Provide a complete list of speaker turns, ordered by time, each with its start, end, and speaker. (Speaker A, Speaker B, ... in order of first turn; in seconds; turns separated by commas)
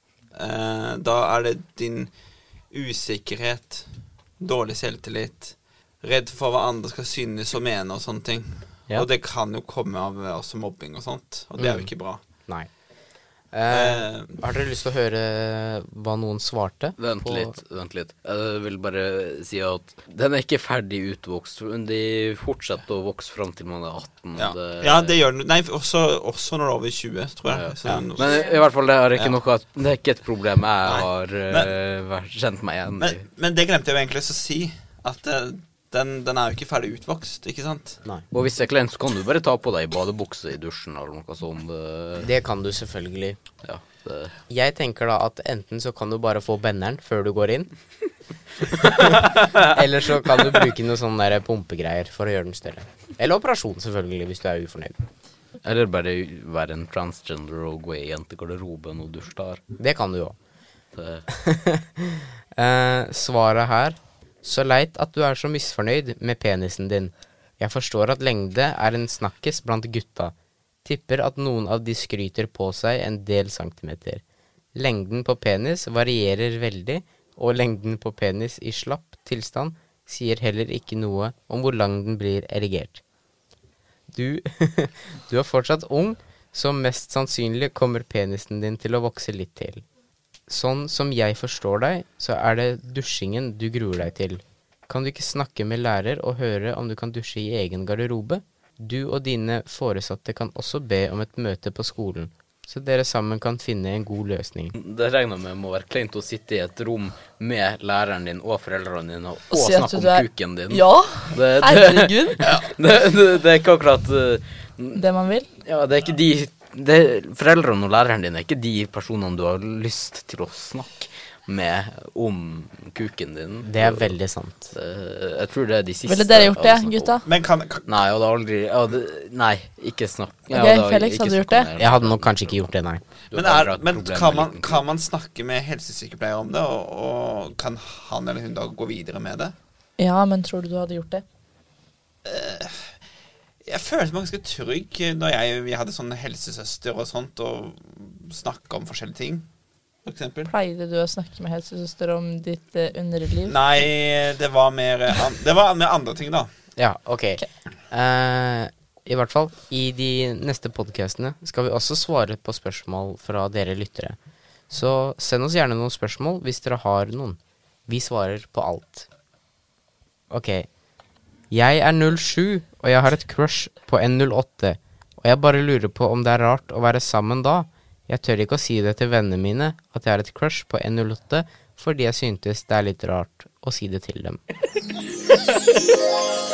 Speaker A: 0.3-2.1, Speaker A: 2.7-3.9, Speaker A: 4.4-12.2, Speaker B: 11.6-11.9, Speaker B: 13.5-17.6, Speaker A: 13.7-14.4, Speaker C: 17.0-25.2, Speaker A: 24.4-28.6, Speaker C: 27.5-33.2, Speaker A: 30.8-31.7, Speaker A: 33.0-38.0, Speaker C: 38.3-42.3, Speaker B: 42.2-43.4, Speaker C: 43.6-44.3, Speaker B: 44.5-47.7, Speaker B: 48.6-55.0, Speaker C: 55.6-59.6, Speaker B: 59.8-60.4, Speaker C: 60.9-61.2, Speaker B: 61.3-70.3, Speaker B: 70.8-74.2, Speaker B: 74.8-83.0, Speaker B: 84.1-89.8, Speaker B: 90.5-104.8, Speaker C: 104.8-115.0, Speaker D: 109.5-112.5, Speaker D: 114.9-115.5, Speaker C: 115.6-124.2, Speaker B: 123.7-124.7, Speaker C: 124.7-127.2, Speaker D: 126.1-127.3, Speaker A: 127.3-127.9, Speaker C: 127.9-132.7, Speaker D: 130.5-131.7, Speaker B: 131.8-133.0, Speaker C: 133.3-134.9, Speaker A: 133.3-139.6, Speaker D: 140.0-141.2, Speaker A: 142.2-143.0, Speaker A: 143.7-149.5, Speaker A: 150.1-150.5, Speaker D: 150.5-153.7, Speaker A: 153.5-156.5, Speaker B: 156.8-164.2, Speaker B: 164.7-169.1, Speaker B: 170.3-170.7, Speaker B: 171.5-184.4